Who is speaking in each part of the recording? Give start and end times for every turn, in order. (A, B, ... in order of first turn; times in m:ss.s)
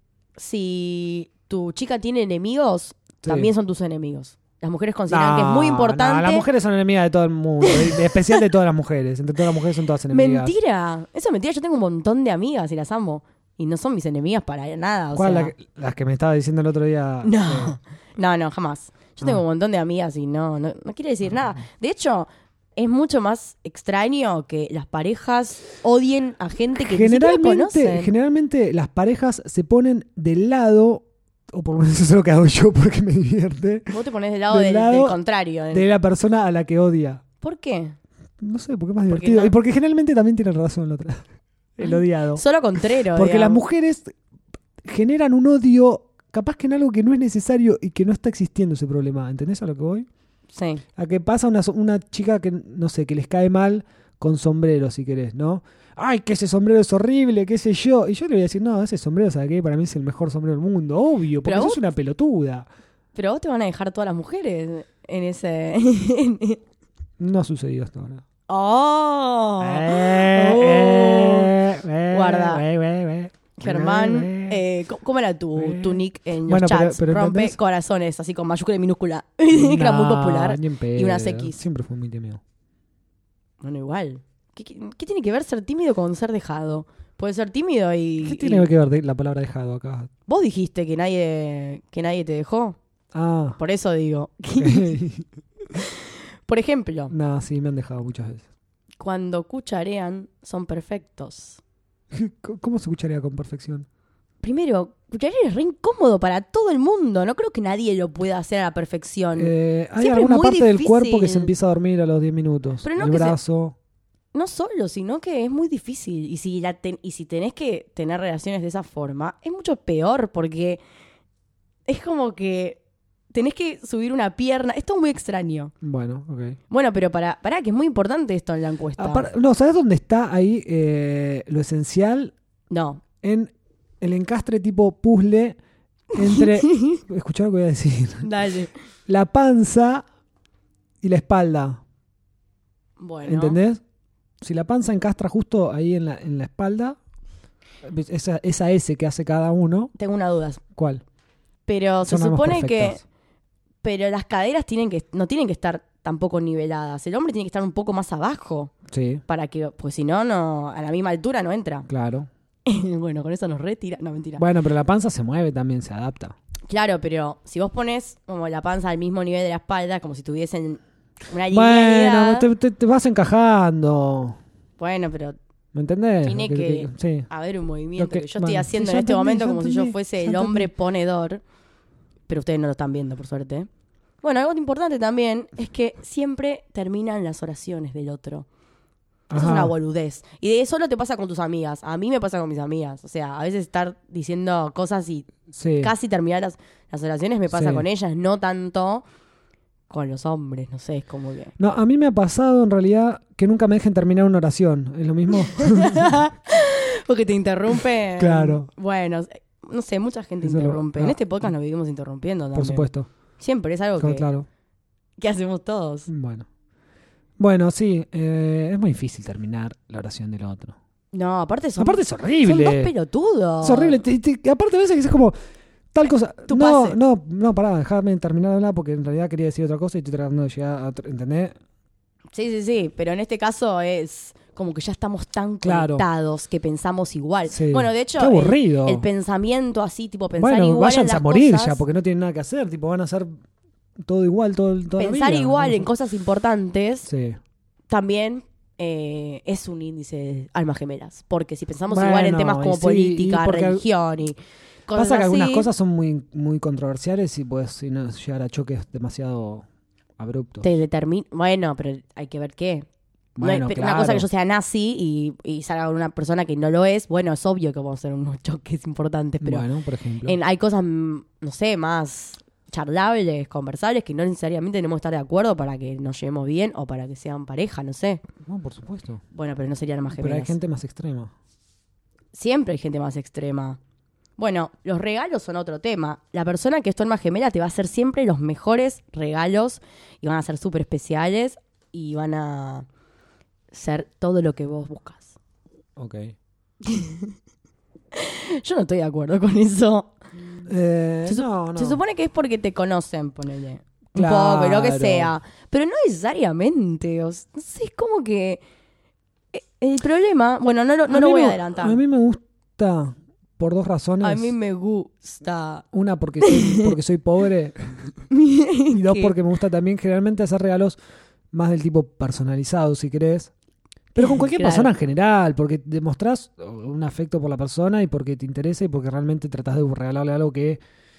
0:00.4-0:06.5 A
0:03.2-0:03.5 B
0:05.1-0:10.5 B
0:07.6-0:08.4 A
0:10.1-0:15.5 A
0:15.2-0:17.8 B
0:17.2-0:28.1 A
0:26.8-0:34.0 B
0:33.9-0:35.8 A
0:34.5-0:35.2 B
0:35.7-0:37.2 B
0:37.4-0:38.0 A
0:38.4-0:41.2 B
0:39.1-0:39.5 A
0:41.8-0:42.4 B
0:41.8-0:43.6 A
0:43.1-0:44.1 B
0:44.8-0:50.1 B
0:50.5-0:50.8 A
0:51.0-1:02.7 B
1:01.4-1:01.8 A
1:03.2-1:06.6 A
1:07.2-1:08.2 B
1:08.5-1:11.6 A
1:09.6-1:14.6 B
1:12.1-1:12.6 A
1:13.6-1:21.6 A
1:15.6-1:17.6 B
1:19.5-1:22.4 B
1:23.6-1:28.7 A
1:28.2-1:30.1 B
1:30.3-1:32.8 A
1:33.1-1:33.6 B
1:33.6-1:35.0 A
1:34.5-1:35.3 B
1:35.8-1:37.1 A
1:37.1-1:38.4 B
1:39.0-1:41.6 A
1:42.1-1:43.9 B
1:44.4-1:51.5 A
1:49.4-1:53.8 B
1:52.8-1:53.4 A
1:54.3-2:00.8 A
2:01.9-2:02.8 A
2:03.3-2:05.7 A
2:05.8-2:06.6 B
2:06.7-2:09.3 A
2:09.0-2:12.3 B
2:12.7-2:13.0 A
2:13.2-2:15.6 B
2:16.1-2:18.3 B
2:16.2-2:17.0 A
2:18.2-2:18.7 A
2:19.1-2:20.0 B
2:21.0-2:21.8 B
2:23.0-2:23.6 A
2:23.3-2:23.8 B
2:24.4-2:27.0 B
2:27.8-2:29.9 B
2:30.0-2:30.6 A
2:30.8-2:31.0 B
2:31.7-2:33.0 A
2:32.0-2:33.0 B
2:33.8-2:38.7 A
2:38.9-2:39.2 B
2:39.3-2:41.9 A
2:41.9-2:42.3 B
2:42.7-2:44.4 A
2:44.4-2:46.4 B
2:46.7-2:52.5 A
2:51.5-2:54.4 B
2:54.8-2:55.4 A
2:55.7-2:57.3 B
2:56.2-3:01.4 A
2:58.0-3:00.7 B
3:02.3-3:03.7 A
3:04.2-3:08.5 A
3:09.3-3:09.7 B
3:09.3-3:19.0 A
3:15.5-3:15.9 B
3:17.5-3:17.9 B
3:19.9-3:21.5 A
3:21.6-3:26.2 B
3:25.6-3:32.8 A
3:28.2-3:28.7 B
3:30.4-3:31.2 B
3:32.5-3:33.1 B
3:33.4-3:34.3 A
3:34.0-3:34.5 B
3:35.2-3:36.1 A
3:36.1-3:36.5 B
3:37.4-3:40.8 B
3:41.1-3:44.0 A
3:41.8-3:42.9 B
3:43.6-3:45.4 B
3:45.9-3:51.6 B
3:46.5-3:47.0 A
3:52.3-4:01.8 A
3:55.6-3:56.0 B
3:57.5-3:59.1 B
4:00.4-4:03.3 B
4:04.0-4:05.9 B
4:05.0-4:07.1 A
4:07.1-4:07.4 B
4:07.9-4:15.7 A
4:11.9-4:13.8 B
4:14.9-4:19.6 B
4:20.2-4:20.7 B
4:20.6-4:22.9 A
4:23.4-4:24.3 B
4:23.4-4:29.7 A
4:29.4-4:30.4 B
4:30.2-4:38.2 A
4:38.4-4:39.2 B
4:39.3-4:40.6 A
4:40.2-4:41.3 B
4:42.3-4:43.8 A
4:44.4-4:52.9 A
4:53.7-4:55.4 A
4:56.0-4:56.4 B
4:56.8-4:57.3 A
4:58.1-5:00.1 A
5:00.7-5:02.0 B
5:01.3-5:08.6 A
5:04.2-5:05.3 B
5:09.5-5:12.0 A
5:11.1-5:14.5 B
5:14.2-5:15.8 A
5:15.9-5:18.1 B
5:16.4-5:17.0 A
5:18.3-5:19.3 A
5:18.9-5:21.0 B
5:21.5-5:23.5 B
5:24.2-5:24.9 A
5:24.2-5:30.8 B